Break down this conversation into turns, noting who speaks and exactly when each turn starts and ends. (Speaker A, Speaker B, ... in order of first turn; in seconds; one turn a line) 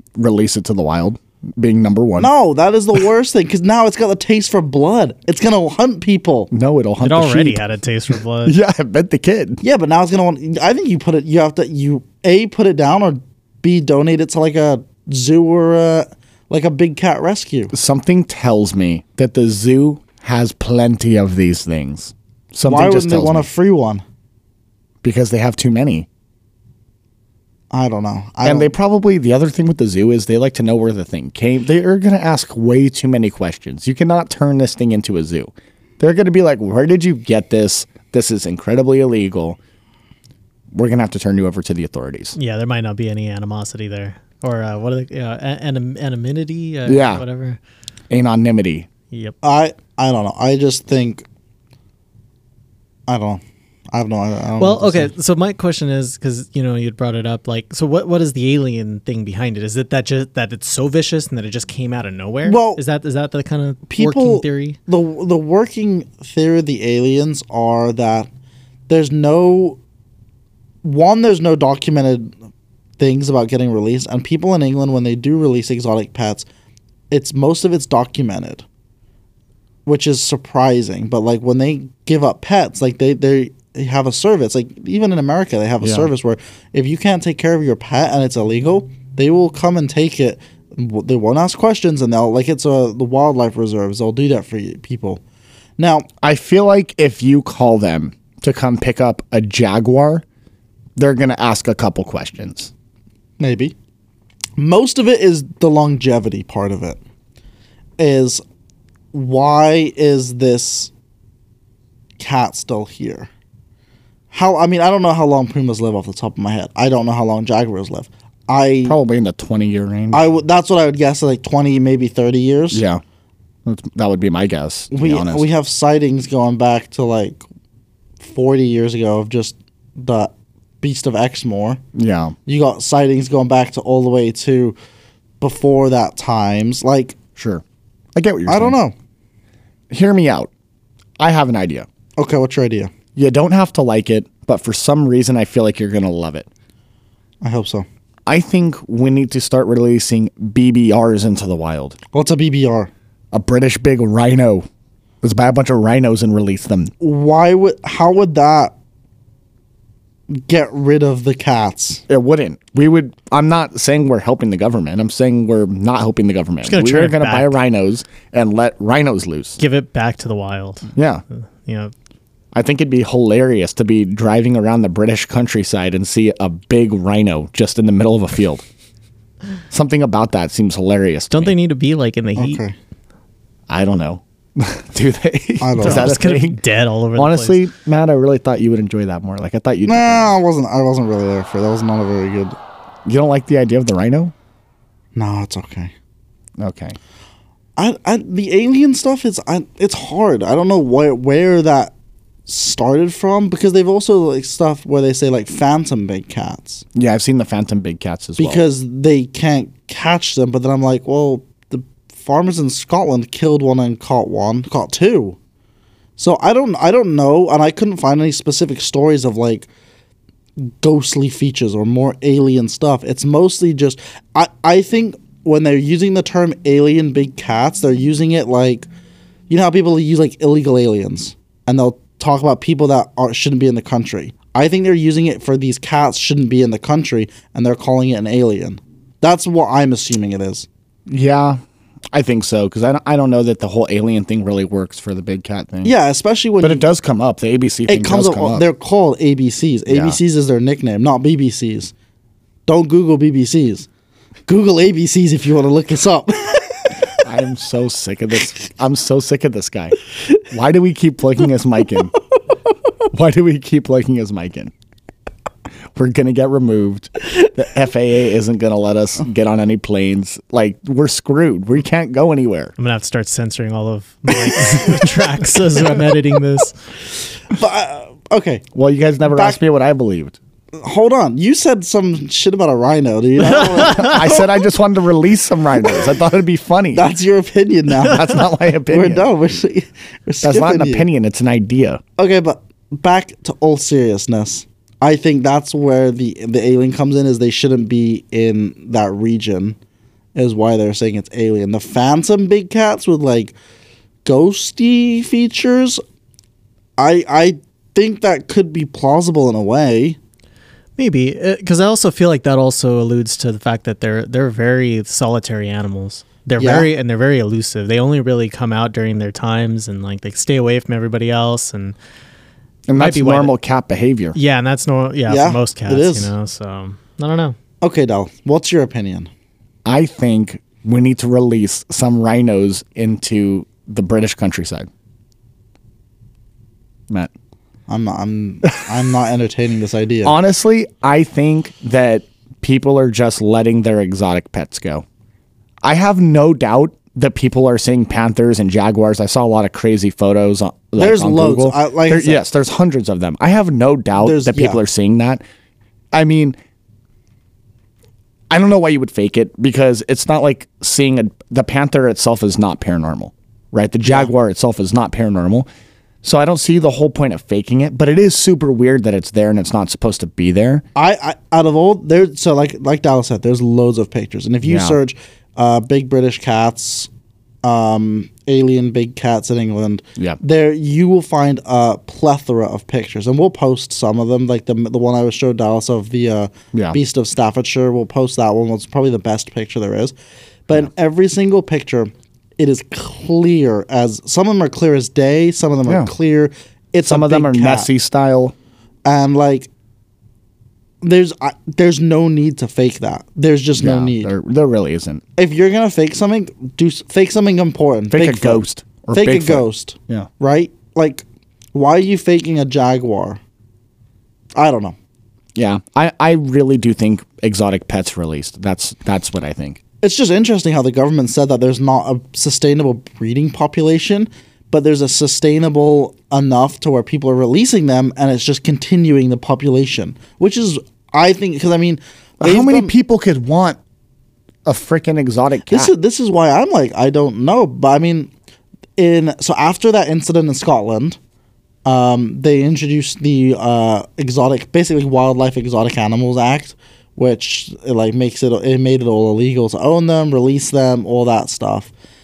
Speaker A: 0.2-2.3
Speaker B: 2.2-6.5
Speaker A: 6.5-7.6
Speaker C: 7.0-8.6
Speaker A: 8.4-9.6
Speaker B: 9.6-17.7
Speaker A: 17.7-23.5
Speaker B: 22.6-24.0
Speaker A: 25.0-26.1
Speaker B: 27.7-28.7
Speaker A: 28.4-39.6
Speaker A: 40.7-42.4
Speaker C: 42.4-47.6
Speaker A: 46.9-47.2
Speaker A: 48.1-48.9
Speaker B: 49.4-51.2
Speaker B: 53.1-53.4
Speaker B: 53.9-55.1
Speaker C: 54.6-64.8
Speaker B: 62.5-62.8
Speaker B: 63.9-68.3
Speaker B: 68.9-69.8
Speaker B: 70.8-72.3
Speaker B: 73.0-76.5
Speaker B: 77.1-78.7
Speaker B: 79.9-95.2
Speaker A: 85.8-86.1
Speaker B: 95.8-96.1
Speaker A: 96.2-100.2
Speaker A: 101.0-102.7
Speaker B: 103.4-103.8
Speaker B: 104.6-107.0
Speaker B: 108.0-108.4
Speaker B: 109.1-110.9
Speaker B: 112.2-113.3
Speaker B: 114.3-119.0
Speaker A: 118.9-120.3
Speaker B: 120.1-122.8
Speaker A: 122.7-123.0
Speaker A: 123.7-125.5
Speaker B: 124.9-127.4
Speaker B: 128.2-131.8
Speaker A: 131.9-132.4
Speaker B: 132.5-134.8
Speaker B: 135.4-137.2
Speaker A: 137.4-137.6
Speaker A: 138.2-138.8
Speaker B: 138.5-138.9
Speaker A: 139.9-140.5
Speaker A: 141.2-141.9
Speaker B: 142.2-142.9
Speaker A: 143.2-146.5
Speaker B: 147.4-147.9
Speaker A: 148.3-152.0
Speaker B: 152.1-152.9
Speaker A: 153.3-154.7
Speaker A: 155.2-156.9
Speaker B: 157.0-158.7
Speaker B: 160.3-162.0
Speaker A: 162.1-169.6
Speaker C: 166.7-167.5
Speaker C: 169.6-170.9
Speaker A: 170.9-171.2
Speaker C: 171.7-171.9
Speaker A: 172.5-178.6
Speaker A: 179.7-181.6
Speaker C: 181.3-182.6
Speaker B: 182.4-182.8
Speaker A: 183.7-186.6
Speaker B: 185.6-186.2
Speaker C: 185.8-187.6
Speaker A: 187.2-190.3
Speaker B: 189.9-192.6
Speaker A: 193.1-194.3
Speaker B: 195.2-195.9
Speaker A: 196.6-197.0
Speaker B: 197.8-201.9
Speaker B: 202.5-206.8
Speaker A: 206.9-208.6
Speaker B: 208.4-215.4
Speaker B: 216.2-219.7
Speaker B: 220.6-228.9
Speaker B: 229.5-240.7
Speaker A: 241.1-245.9
Speaker B: 245.8-246.9
Speaker A: 246.6-248.7
Speaker B: 247.9-251.9
Speaker A: 249.9-250.2
Speaker B: 252.7-253.9
Speaker B: 254.5-256.9
Speaker A: 257.2-262.1
Speaker A: 263.1-264.7
Speaker A: 265.9-272.7
Speaker C: 272.8-276.8
Speaker B: 277.5-278.6
Speaker A: 278.7-280.4
Speaker B: 279.3-279.6
Speaker B: 280.8-284.7
Speaker C: 283.6-284.1
Speaker A: 283.8-287.1
Speaker B: 286.9-291.1
Speaker A: 288.0-289.3
Speaker A: 290.4-292.0
Speaker B: 292.2-299.8
Speaker B: 300.4-303.6
Speaker B: 304.2-306.0
Speaker B: 307.0-310.2
Speaker C: 311.0-322.0
Speaker B: 316.6-316.9
Speaker A: 322.9-324.4
Speaker C: 322.9-323.5
Speaker C: 324.4-327.6
Speaker B: 325.3-326.3
Speaker B: 327.8-329.3
Speaker A: 329.9-334.9
Speaker B: 337.9-340.4
Speaker A: 340.2-345.1
Speaker A: 345.8-355.4
Speaker B: 351.0-352.4
Speaker B: 354.2-354.8
Speaker A: 356.1-356.6
Speaker A: 358.5-365.7
Speaker B: 364.0-364.3
Speaker A: 366.2-370.8
Speaker B: 370.9-377.1
Speaker A: 374.6-375.0
Speaker B: 377.6-390.1
Speaker A: 386.7-387.0
Speaker B: 390.7-397.9
Speaker A: 395.9-396.1
Speaker A: 397.0-398.6
Speaker B: 399.1-399.7
Speaker B: 401.0-404.3
Speaker A: 403.8-405.2
Speaker B: 405.4-413.4
Speaker A: 408.1-410.3
Speaker B: 414.6-415.0
Speaker A: 415.6-419.8
Speaker B: 420.0-432.9
Speaker A: 432.4-433.8
Speaker A: 434.6-435.9
Speaker B: 435.7-438.3
Speaker B: 439.0-441.2
Speaker B: 441.9-451.9